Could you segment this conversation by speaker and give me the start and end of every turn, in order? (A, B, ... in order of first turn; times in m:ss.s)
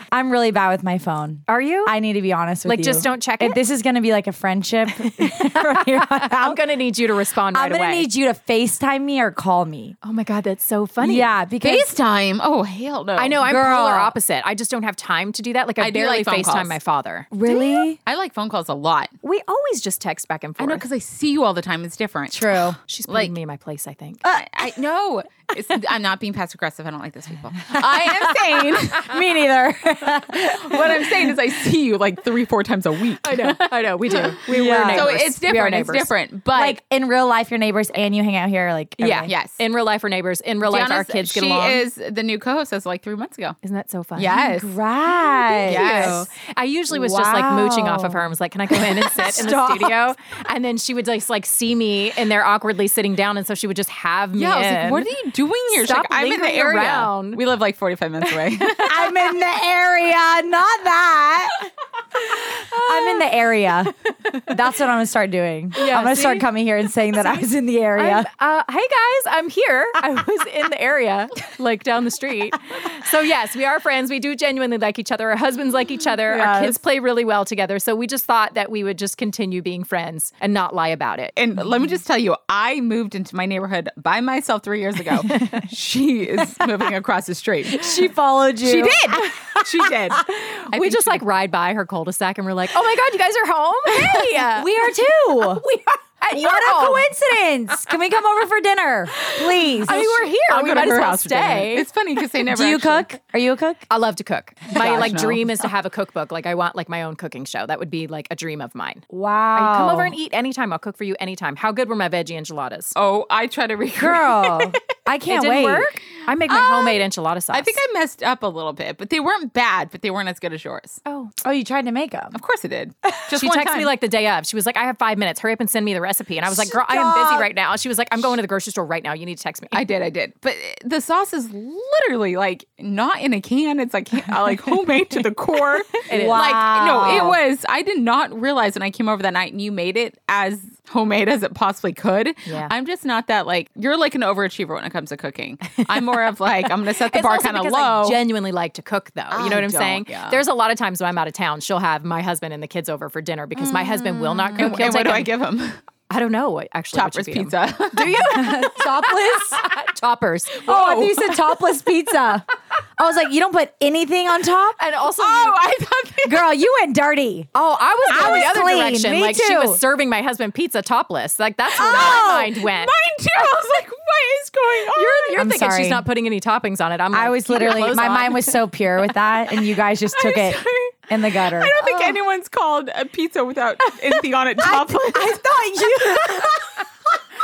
0:00.1-0:06.6 A
0:01.5-0:01.9 B
0:02.6-0:03.6 B
0:04.9-0:08.1 B
0:07.5-0:10.0 A
0:10.0-0:11.3 B
0:11.0-0:11.9 A
0:11.6-0:13.4 C
0:13.2-0:17.8 B
0:13.4-0:14.2 A
0:15.8-0:16.8 C
0:17.3-0:18.0 A
0:18.0-0:19.1 C
0:19.2-0:20.8 B
0:20.6-0:22.4 C
0:22.3-0:22.8 A
0:22.9-0:24.2 B
0:23.1-0:23.3 C
0:24.2-0:24.5 A
0:24.3-0:29.2 C
0:27.7-0:31.4 A
0:30.3-0:36.8 C
0:33.2-0:36.1 B
0:34.4-0:35.1 A
0:36.5-0:39.3 A
0:39.0-0:41.8 B
0:39.2-0:39.6 C
0:40.6-0:43.6 C
0:43.6-0:44.4 B
0:44.2-0:44.7 C
0:44.2-0:46.3 A
0:45.4-0:55.1 B
0:45.6-0:46.2 C
0:46.9-0:50.1 A
0:54.3-0:59.0 C
0:55.7-0:57.4 B
0:58.8-1:08.3 A
1:02.7-1:03.3 B
1:05.7-1:06.5 B
1:07.2-1:21.4 B
1:16.3-1:16.8 A
1:16.5-1:16.7 C
1:21.4-1:28.0 C
1:27.7-1:29.6 A
1:28.6-1:31.2 C
1:28.8-1:29.2 B
1:30.1-1:37.1 B
1:34.5-1:35.6 A
1:36.3-1:40.0 A
1:39.7-1:41.9 B
1:39.8-1:43.1 C
1:42.5-1:43.8 A
1:43.9-1:52.9 B
1:44.7-1:45.4 C
1:44.8-1:45.2 A
1:49.1-1:50.2 A
1:52.9-1:54.4 C
1:54.0-1:55.9 A
1:55.3-1:57.8 B
1:56.5-2:01.0 C
2:01.0-2:01.4 B
2:01.4-2:02.4 A
2:02.3-2:03.9 C
2:03.3-2:09.8 B
2:06.4-2:07.5 A
2:09.7-2:28.2 C
2:16.0-2:16.6 B
2:16.1-2:17.4 A
2:22.5-2:22.7 B
2:26.6-2:35.3 B
2:29.3-2:30.4 C
2:33.6-2:34.8 A
2:34.6-2:35.8 C
2:36.1-2:41.3 B
2:36.9-2:38.6 C
2:38.3-2:39.6 A
2:40.6-2:41.3 C
2:40.6-2:44.8 A
2:44.8-2:45.7 B
2:45.1-2:46.4 C
2:46.2-2:49.8 A
2:47.5-2:52.9 B
2:48.1-2:48.5 C
2:51.8-2:55.4 C
2:51.9-2:52.2 A
2:54.9-2:58.6 B
2:55.4-2:56.0 A
2:57.1-3:01.8 A
3:00.2-3:05.4 C
3:04.6-3:06.8 A